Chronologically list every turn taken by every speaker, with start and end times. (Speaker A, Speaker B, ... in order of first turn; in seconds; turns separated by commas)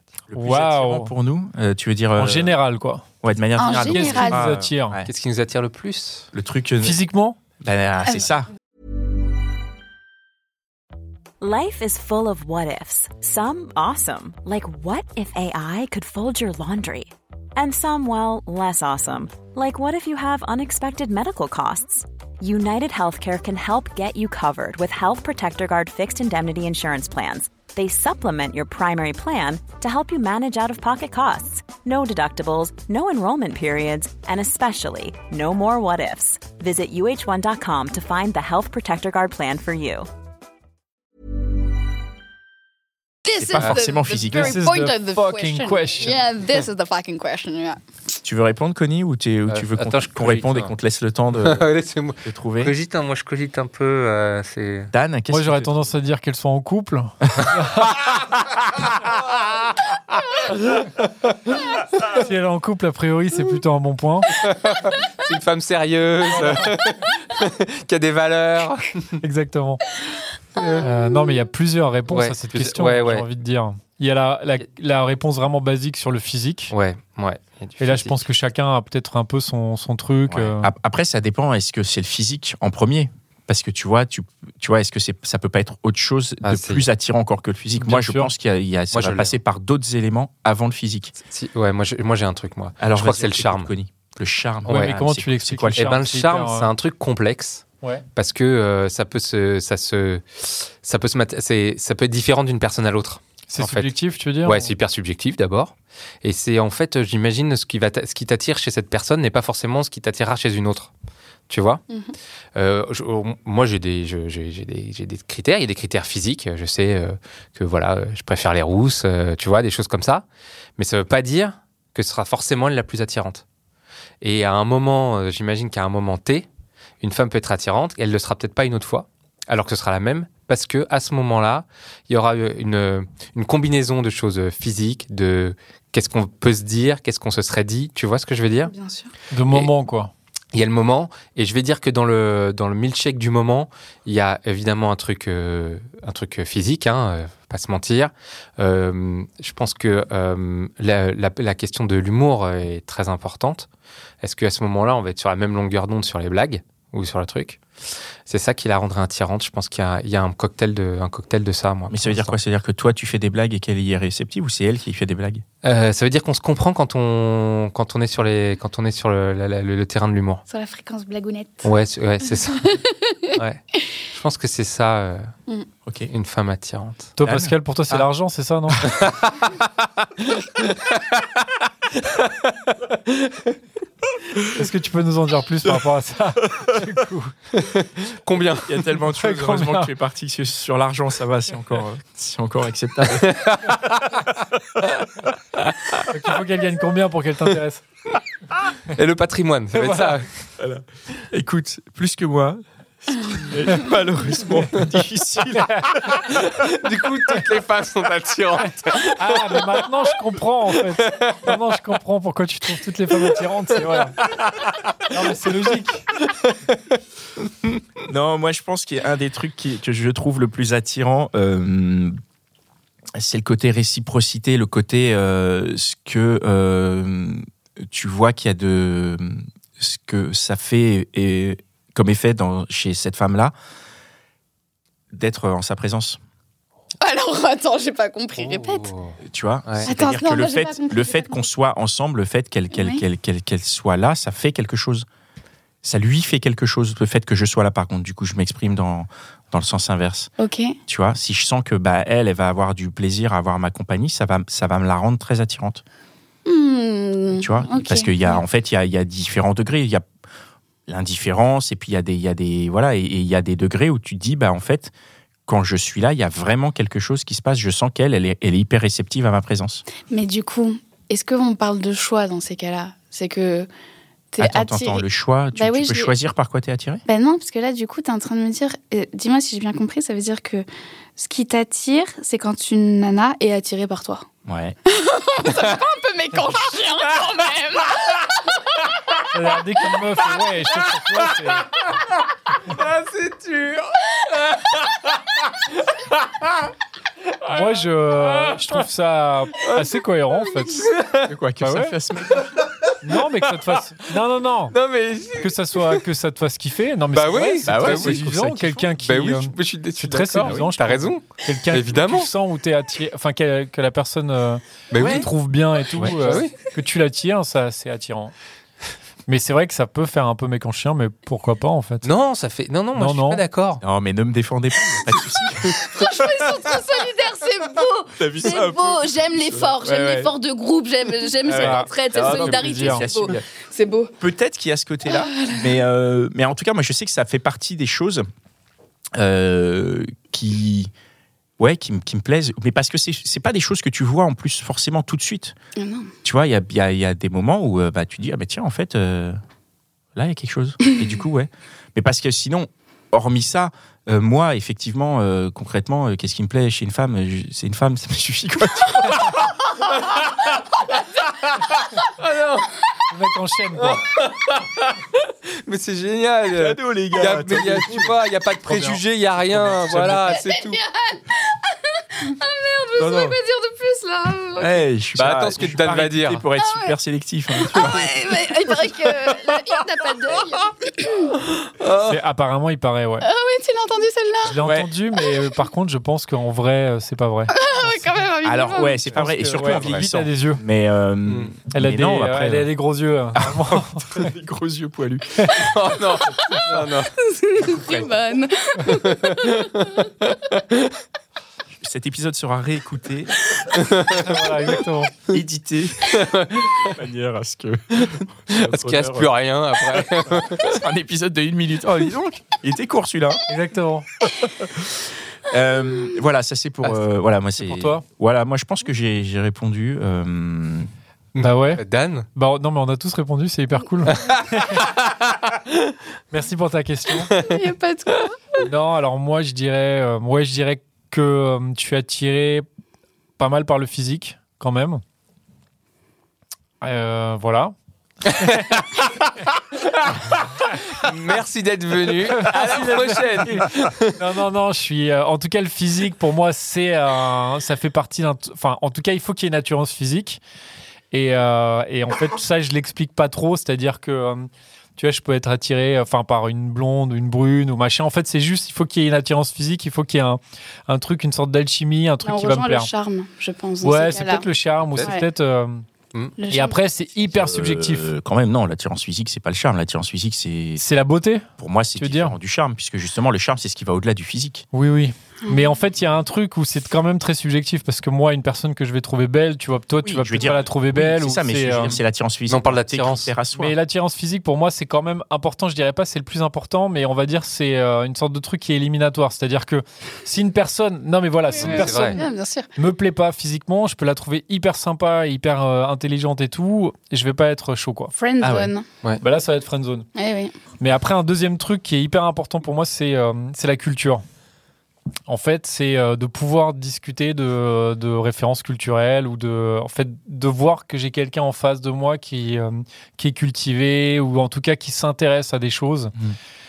Speaker A: 0.3-2.5, Speaker B: 0.3-1.1, Speaker B: 2.1-3.0, Speaker A: 3.2-5.1, Speaker C: 3.6-4.4, Speaker B: 3.8-5.0, Speaker D: 5.1-6.3, Speaker A: 6.3-7.0, Speaker B: 6.8-7.4, Speaker A: 7.6-8.5, Speaker E: 11.4-40.1, Speaker C: 43.3-47.8, Speaker A: 43.3-44.5, Speaker B: 44.3-46.2, Speaker A: 48.2-51.6, Speaker D: 49.5-50.7, Speaker D: 51.3-54.9, Speaker A: 52.2-52.7, Speaker A: 54.9-55.8, Speaker B: 55.3-58.0, Speaker D: 59.3-59.6, Speaker D: 60.5-61.7, Speaker B: 62.0-64.3, Speaker D: 64.3-69.2, Speaker B: 66.3-66.8, Speaker B: 69.2-69.9, Speaker D: 70.5-70.9, Speaker B: 70.8-76.7, Speaker D: 72.1-73.3, Speaker D: 76.7-78.3, Speaker B: 77.8-80.7, Speaker A: 80.3-91.1, Speaker D: 86.4-86.9, Speaker B: 87.8-88.3, Speaker D: 88.9-89.4, Speaker D: 91.2-93.7, Speaker A: 92.8-95.9, Speaker B: 94.7-96.7, Speaker D: 94.7-95.0, Speaker D: 95.7-110.9, Speaker B: 103.5-104.7, Speaker D: 111.5-111.8, Speaker D: 112.6-120.3, Speaker D: 120.8-123.4, Speaker D: 124.2-126.5, Speaker D: 127.0-138.7, Speaker C: 138.7-139.1, Speaker B: 139.3-140.1, Speaker D: 140.5-153.7, Speaker D: 154.2-157.6, Speaker D: 158.3-162.3, Speaker A: 161.9-165.4, Speaker D: 165.6-170.4, Speaker C: 170.5-171.7, Speaker D: 171.6-172.8, Speaker C: 172.6-173.4, Speaker D: 173.3-175.3, Speaker A: 175.9-176.1, Speaker D: 176.1-177.1, Speaker B: 177.2-178.8, Speaker A: 177.2-178.1, Speaker D: 178.9-179.7, Speaker D: 180.2-181.3, Speaker D: 182.0-183.5, Speaker B: 184.5-187.3, Speaker D: 187.5-188.8, Speaker A: 188.7-193.4, Speaker B: 189.0-189.9, Speaker D: 193.3-194.0, Speaker B: 196.1-197.8, Speaker D: 198.9-200.3, Speaker B: 199.7-200.2, Speaker A: 200.6-206.2, Speaker D: 206.3-210.1, Speaker B: 209.1-214.1, Speaker D: 210.8-211.5, Speaker D: 213.2-214.6, Speaker B: 215.1-216.0, Speaker A: 218.1-222.2, Speaker A: 223.2-233.5, Speaker A: 235.1-236.2, Speaker C: 237.0-238.9, Speaker D: 238.3-239.9, Speaker A: 239.2-245.1, Speaker C: 239.8-241.5, Speaker C: 242.7-243.1, Speaker A: 245.8-250.3, Speaker C: 250.4-250.7, Speaker A: 250.9-255.8, Speaker C: 256.4-258.4, Speaker A: 257.3-260.1, Speaker A: 260.9-264.9, Speaker A: 265.5-269.9, Speaker C: 270.1-273.7, Speaker C: 274.3-276.1, Speaker A: 274.4-277.0, Speaker C: 277.1-284.3, Speaker A: 284.5-284.8, Speaker C: 284.9-288.4, Speaker B: 289.3-291.7, Speaker D: 292.6-296.7, Speaker D: 297.4-298.6, Speaker B: 297.5-300.9, Speaker D: 299.6-301.3, Speaker A: 301.3-302.5, Speaker B: 301.6-302.0, Speaker D: 302.4-303.8, Speaker B: 303.0-304.8, Speaker D: 304.7-306.0, Speaker B: 305.4-318.3, Speaker D: 307.1-308.3, Speaker A: 307.6-308.9, Speaker D: 309.0-312.3, Speaker A: 310.4-310.7, Speaker D: 314.9-315.3, Speaker A: 315.0-315.3, Speaker D: 315.9-316.6, Speaker B: 319.3-322.1, Speaker D: 322.0-323.8, Speaker B: 322.9-323.4, Speaker A: 323.8-326.1, Speaker C: 325.7-334.1, Speaker A: 328.1-330.3, Speaker A: 331.4-333.5, Speaker B: 331.5-333.1, Speaker A: 334.2-338.2, Speaker C: 335.1-335.8, Speaker A: 339.2-340.9, Speaker A: 341.6-345.5, Speaker C: 345.8-346.1, Speaker A: 346.2-349.4, Speaker A: 350.1-359.7, Speaker D: 359.9-363.0, Speaker B: 363.1-364.0, Speaker D: 363.7-370.8, Speaker A: 366.5-368.1, Speaker B: 368.6-369.0, Speaker B: 369.6-370.1, Speaker A: 369.9-370.2, Speaker C: 370.5-374.9, Speaker A: 373.0-373.4, Speaker A: 374.6-378.2, Speaker D: 375.1-376.4, Speaker C: 376.6-376.9, Speaker C: 377.6-381.4, Speaker D: 381.5-382.2, Speaker B: 382.0-383.3, Speaker C: 383.2-384.6, Speaker B: 384.5-388.1, Speaker A: 384.6-384.9, Speaker C: 387.5-389.1, Speaker A: 388.4-392.7, Speaker B: 389.1-390.6, Speaker D: 389.2-390.1, Speaker D: 391.3-391.5, Speaker B: 391.7-394.3, Speaker A: 393.4-395.4, Speaker D: 395.7-397.2, Speaker B: 396.4-396.9, Speaker C: 397.3-400.1, Speaker A: 397.6-398.1, Speaker D: 398.9-400.9, Speaker A: 401.8-403.5, Speaker D: 403.7-404.3, Speaker B: 404.1-405.1, Speaker A: 405.3-406.1, Speaker D: 406.1-406.9, Speaker A: 406.7-409.3, Speaker D: 408.0-410.8, Speaker A: 410.4-413.4, Speaker B: 413.5-414.1, Speaker A: 414.3-420.9, Speaker B: 417.6-418.0, Speaker D: 421.4-422.3, Speaker B: 421.4-421.8, Speaker B: 422.4-424.9, Speaker D: 424.1-425.9, Speaker B: 426.3-427.3, Speaker C: 427.4-428.7, Speaker B: 428.6-432.6, Speaker B: 433.4-435.0, Speaker B: 436.8-438.8, Speaker D: 438.3-444.2, Speaker B: 442.3-443.6, Speaker B: 444.2-450.4, Speaker B: 451.1-462.9, Speaker C: 462.2-464.5, Speaker B: 463.8-465.9, Speaker D: 464.9-465.2, Speaker C: 465.0-465.2, Speaker C: 466.4-466.8, Speaker B: 466.5-468.1, Speaker A: 467.3-470.9, Speaker B: 470.8-472.4, Speaker A: 471.6-474.7, Speaker B: 474.7-482.0, Speaker A: 480.0-483.7, Speaker D: 482.5-483.3, Speaker B: 483.5-492.2, Speaker C: 491.5-492.7, Speaker D: 491.6-492.2, Speaker B: 492.8-498.1, Speaker C: 498.2-498.9, Speaker A: 498.4-498.7, Speaker B: 499.2-500.1, Speaker C: 500.2-500.5, Speaker B: 500.8-504.2, Speaker B: 505.3-516.1